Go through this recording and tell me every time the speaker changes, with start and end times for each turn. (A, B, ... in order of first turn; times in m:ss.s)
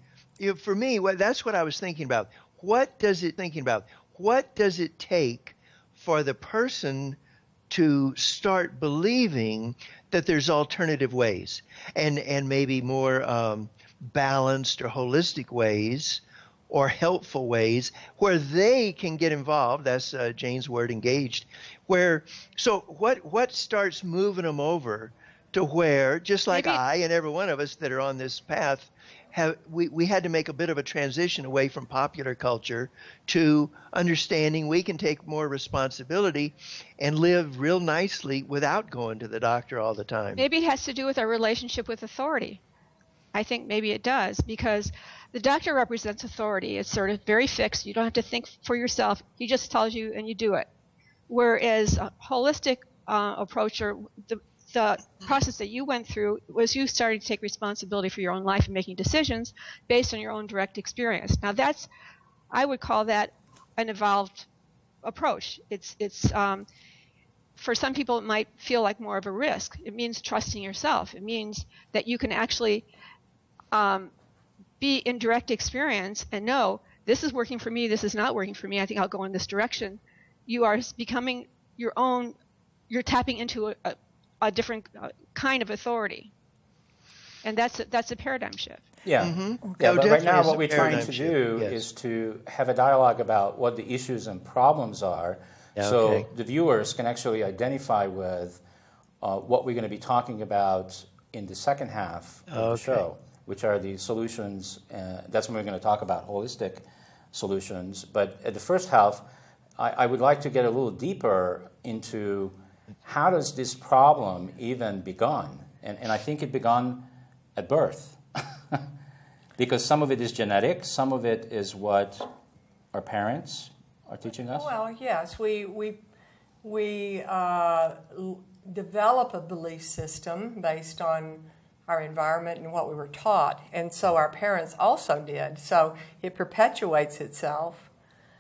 0:00.4-0:07.2 A
0:07.7-0:40.4 A
0:26.5-0:26.8 B
0:40.4-0:42.6 B
0:43.3-0:50.7 B
0:51.3-1:01.9 B
1:02.5-1:04.5 B
1:05.0-1:06.7 B
1:07.6-1:12.9 B
1:13.7-1:14.1 B
1:14.8-1:22.4 B
1:22.9-1:26.3 B
1:27.4-1:28.8 B
1:29.0-1:38.6 C
1:29.2-1:31.8 A
1:35.8-1:36.3 A
1:39.2-1:49.2 C
1:42.5-1:43.0 A
1:49.8-1:58.8 C
1:59.6-2:02.3 C
2:02.9-2:04.7 C
2:04.5-2:06.0 D
2:06.6-2:17.9 D